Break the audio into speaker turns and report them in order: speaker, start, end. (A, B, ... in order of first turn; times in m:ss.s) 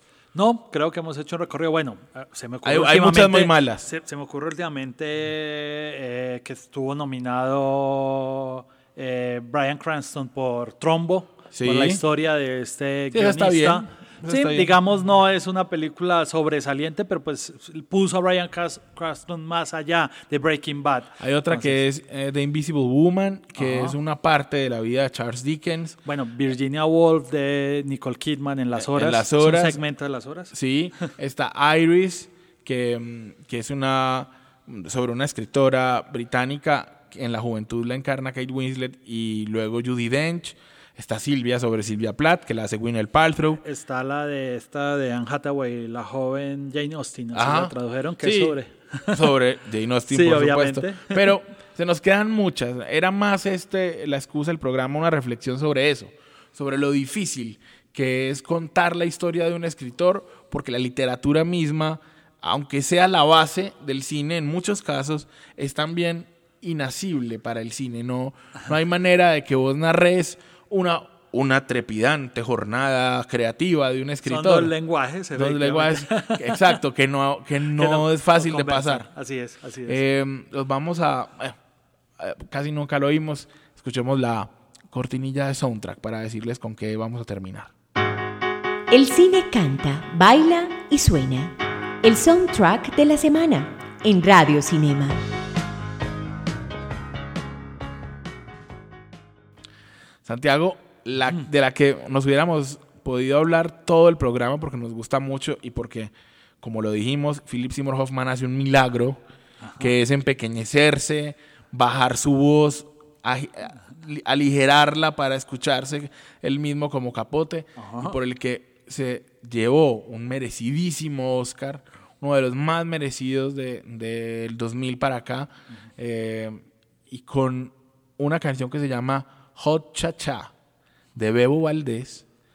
0:00.3-0:21.8 A
0:02.6-0:03.9 B
0:11.5-0:12.0 B
0:13.1-0:14.7 B
0:21.2-0:26.0 B
0:23.6-0:24.0 A
0:26.0-0:30.5 A
0:28.8-0:29.8 B
0:30.5-0:43.6 B
0:43.6-0:49.2 A
0:47.3-0:48.6 B
0:49.1-1:14.7 B
0:50.1-0:51.3 A
1:14.2-1:16.7 A
1:15.3-1:19.1 B
1:17.7-1:20.0 A
1:19.8-1:21.6 B
1:22.2-1:27.7 B
1:28.9-1:35.2 C
1:40.2-1:49.2 B
1:49.6-1:49.9 A
1:49.8-2:10.5 B
1:57.8-1:58.2 A
2:11.1-2:12.2 B